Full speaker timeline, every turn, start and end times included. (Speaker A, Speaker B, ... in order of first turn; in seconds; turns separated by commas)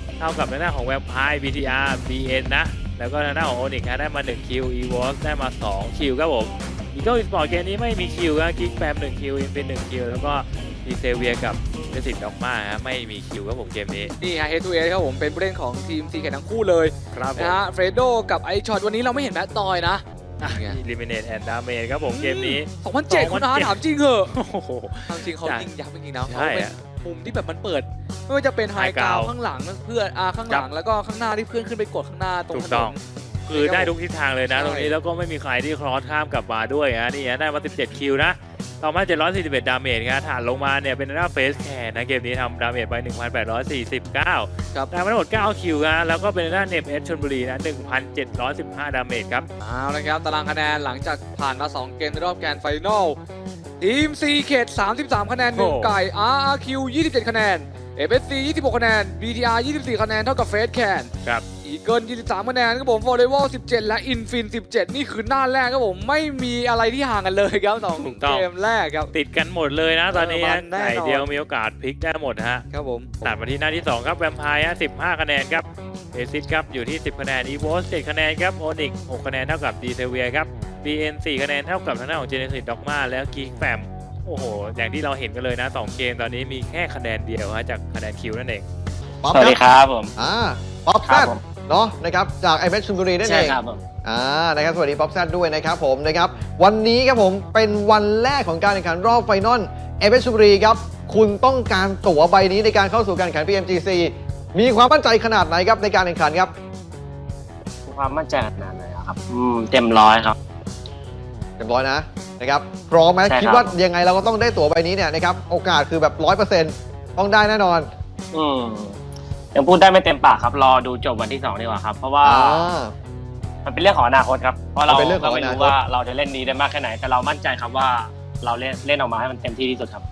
Speaker A: 0.2-14.1, Speaker B: 14.2-20.8, Speaker A: 17.1-17.6, Speaker A: 20.4-25.7, Speaker B: 22.0-24.3, Speaker B: 25.1-33.9, Speaker A: 26.2-26.7, Speaker A: 28.8-29.3, Speaker A: 32.5-49.5, Speaker B: 34.5-34.9, Speaker B: 49.6-53.2, Speaker B: 53.8-61.1, Speaker A: 55.5-55.9, Speaker B: 61.6-69.1, Speaker A: 68.0-68.5, Speaker A: 69.1-72.7, Speaker B: 70.1-71.3, Speaker B: 72.7-73.3, Speaker A: 73.2-88.6, Speaker C: 89.2-89.6, Speaker D: 89.3-90.1, Speaker C: 90.2-106.5, Speaker D: 91.0-91.4, Speaker D: 93.2-93.8, Speaker D: 107.8-110.4, Speaker C: 111.6-117.9, Speaker D: 113.3-113.7, Speaker D: 118.3-118.9, Speaker D: 119.5-122.6, Speaker C: 122.2-122.9, Speaker D: 123.6-130.0, Speaker C: 124.9-125.8